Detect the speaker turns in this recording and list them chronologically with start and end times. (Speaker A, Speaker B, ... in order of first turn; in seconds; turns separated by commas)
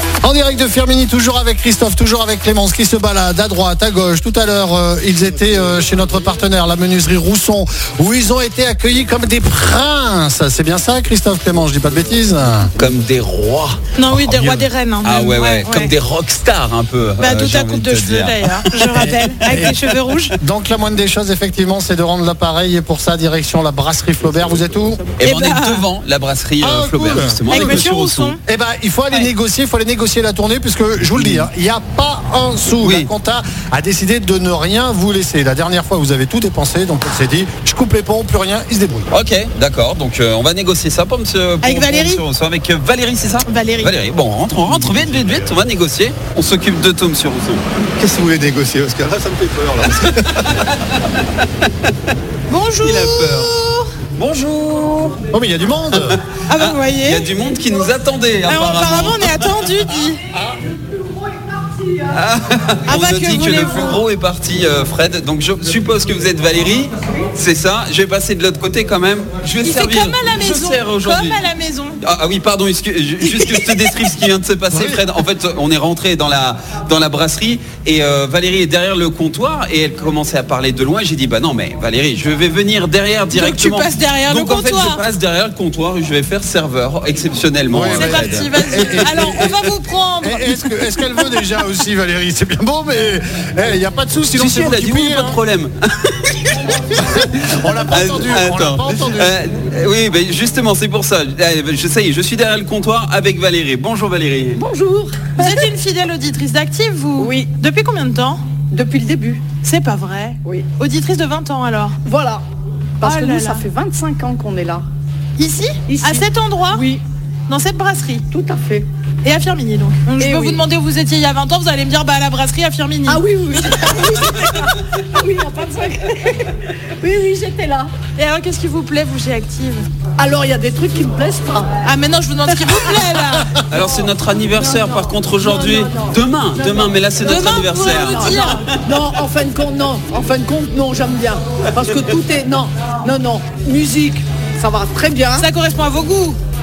Speaker A: 0.2-12.7, Speaker B: 12.8-19.6, Speaker C: 13.9-15.9, Speaker C: 17.2-20.4, Speaker A: 19.5-19.8, Speaker A: 20.4-25.0, Speaker B: 25.2-28.4, Speaker C: 25.2-25.9, Speaker A: 26.6-27.8, Speaker C: 27.5-28.4, Speaker A: 28.4-39.1, Speaker B: 32.8-33.1, Speaker B: 39.1-47.6, Speaker C: 41.6-42.2, Speaker C: 43.4-43.9, Speaker D: 48.0-50.5, Speaker B: 50.6-51.4, Speaker C: 52.5-53.9, Speaker B: 52.8-53.5, Speaker B: 54.1-55.2, Speaker A: 55.3-56.2, Speaker B: 55.9-59.8, Speaker C: 56.5-57.3, Speaker C: 58.5-60.2, Speaker E: 60.7-62.2, Speaker B: 62.1-71.5, Speaker C: 62.9-64.0, Speaker C: 69.6-72.0, Speaker B: 72.0-89.5, Speaker C: 73.2-73.7, Speaker A: 74.7-75.0, Speaker C: 83.3-85.0, Speaker A: 87.7-95.4, Speaker C: 87.9-91.0, Speaker B: 94.3-104.6, Speaker A: 96.9-99.4, Speaker E: 104.5-105.6, Speaker C: 105.4-108.4, Speaker E: 107.2-107.5, Speaker E: 108.7-109.4, Speaker C: 109.6-112.0, Speaker E: 112.0-112.4, Speaker E: 113.0-114.8, Speaker C: 113.0-113.6, Speaker C: 115.4-116.8, Speaker E: 115.9-117.0, Speaker C: 117.5-118.2, Speaker E: 118.3-118.9, Speaker C: 119.2-123.2, Speaker E: 120.2-120.6, Speaker E: 123.1-127.9, Speaker C: 128.2-129.8, Speaker E: 130.2-131.7, Speaker C: 131.8-133.5, Speaker B: 133.7-138.4, Speaker E: 133.8-145.5, Speaker C: 137.2-138.6, Speaker C: 145.4-146.4